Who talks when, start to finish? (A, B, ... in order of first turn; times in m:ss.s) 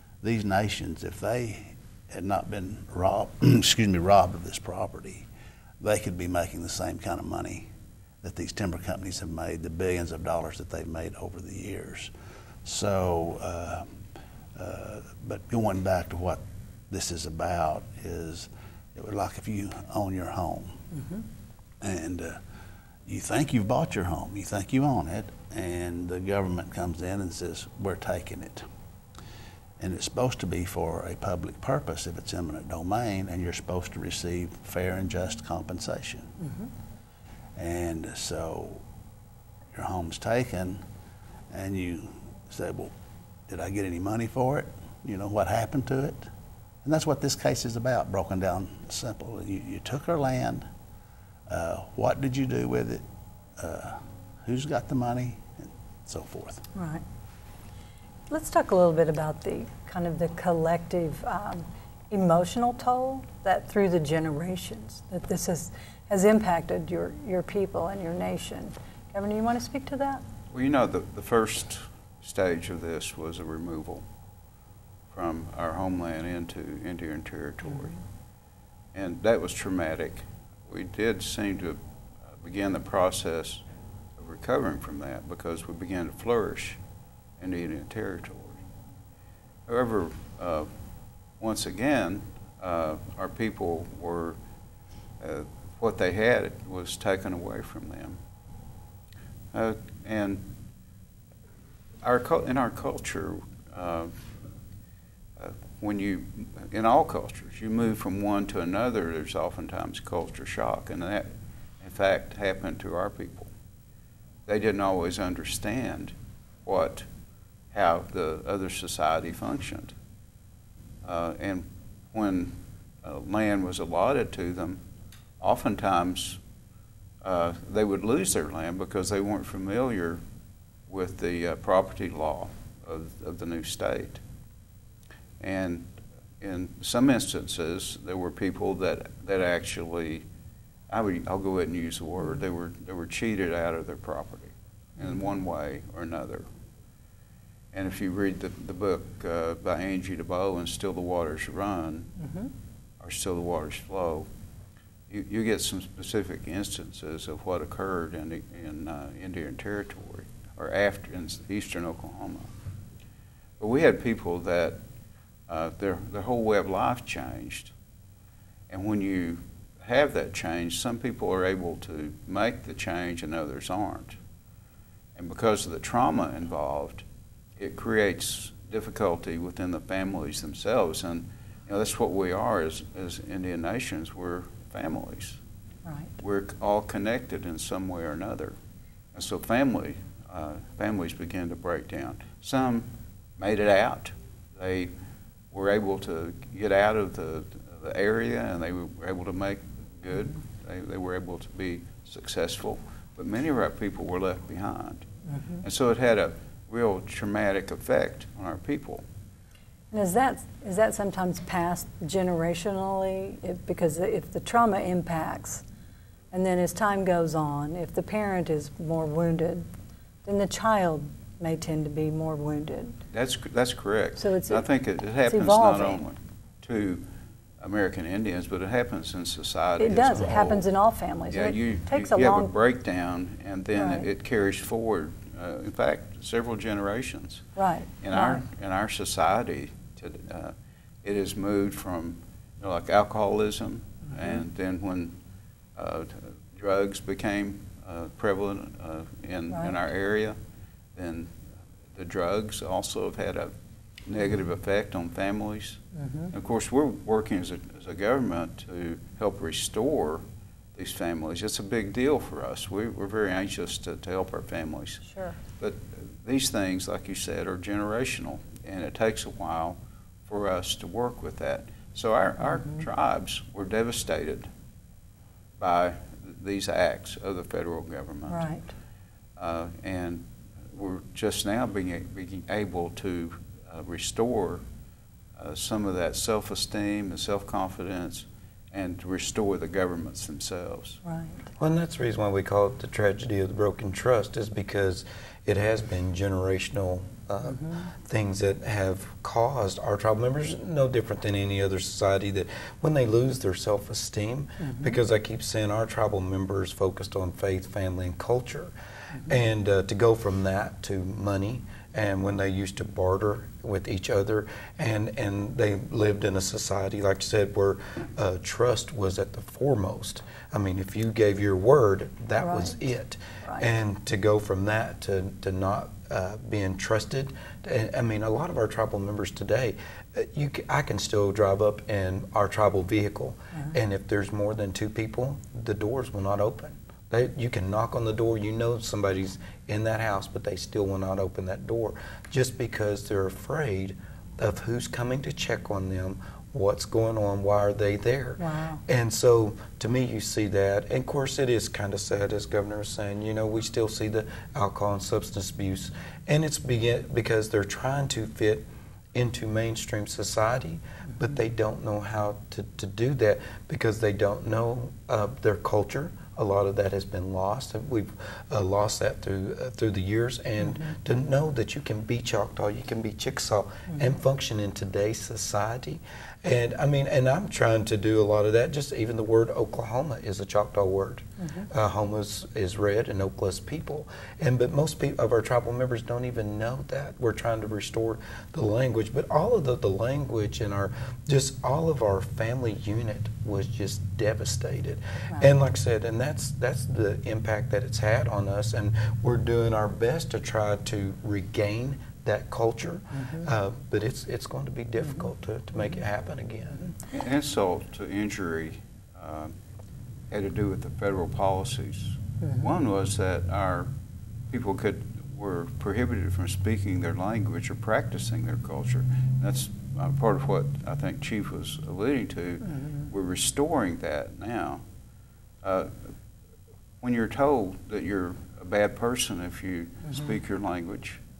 0:00.2-0:05.3 A
0:05.8-0:07.7 A
0:08.2-0:12.1 A
0:12.6-0:13.8 A
0:14.6-0:20.8 A
0:21.8-0:22.4 A
0:23.1-0:28.6 A
0:29.8-0:36.3 A
0:36.4-0:36.7 B
0:37.6-0:38.8 A
0:39.7-0:40.8 A
0:41.5-0:42.9 A
0:43.5-0:46.2 A
0:46.8-0:50.6 A
0:51.5-0:53.0 A
0:53.6-0:56.6 A
0:56.7-0:57.0 B
0:58.3-1:10.2 B
1:10.5-1:14.0 C
1:15.1-1:18.0 C
1:18.9-1:21.8 C
1:22.3-1:23.6 C
1:24.2-1:26.8 C
1:27.4-1:28.6 C
1:29.7-1:30.7 C
1:31.4-1:34.4 C
1:35.2-1:38.2 C
1:39.5-1:40.5 C
1:42.0-1:44.1 C
1:45.4-1:51.3 C
1:51.8-1:53.5 C
1:54.5-1:57.0 C
1:57.7-1:59.9 C
2:01.0-2:04.8 C
2:05.4-2:06.4 C
2:07.2-2:10.2 C
2:10.9-2:14.2 C
2:15.4-2:20.2 C
2:20.9-2:26.4 C
2:27.7-2:32.1 C
2:32.2-2:32.5 B
2:33.0-2:34.3 C
2:35.1-2:42.5 C
2:43.6-2:44.8 C
2:45.5-2:47.7 C
2:48.7-2:54.2 C
2:55.2-2:57.0 C
2:57.6-3:05.4 C
3:05.8-3:06.1 B
3:06.2-3:08.6 C
3:09.1-3:14.9 C
3:15.5-3:25.1 C
3:25.3-3:25.6 B
3:25.6-3:29.0 C
3:29.9-3:35.6 B
3:36.3-3:39.6 B
3:40.2-3:43.0 B
3:43.1-3:47.0 C
3:44.2-3:44.6 B
3:45.3-3:46.0 B
3:47.6-3:50.7 C
3:49.8-3:52.5 B
3:51.3-3:57.4 C
3:53.7-3:54.1 B
3:57.6-3:58.4 B
3:58.0-4:05.2 C
4:05.8-4:10.4 C
4:10.9-4:11.3 C
4:11.9-4:13.5 C
4:14.0-4:20.2 C
4:15.9-4:16.3 B
4:20.7-4:25.0 C
4:25.0-4:25.4 B
4:25.6-4:34.5 C
4:35.6-4:38.5 C
4:38.3-4:38.7 B
4:39.4-4:44.6 C
4:45.4-4:51.0 C
4:51.0-4:51.5 B
4:51.6-6:46.9 D
5:22.4-5:22.8 B
5:48.4-5:48.8 B
6:47.1-6:49.5 C
6:50.3-6:53.9 C
6:54.5-7:04.8 C
7:05.6-7:05.9 C
7:07.0-7:11.2 C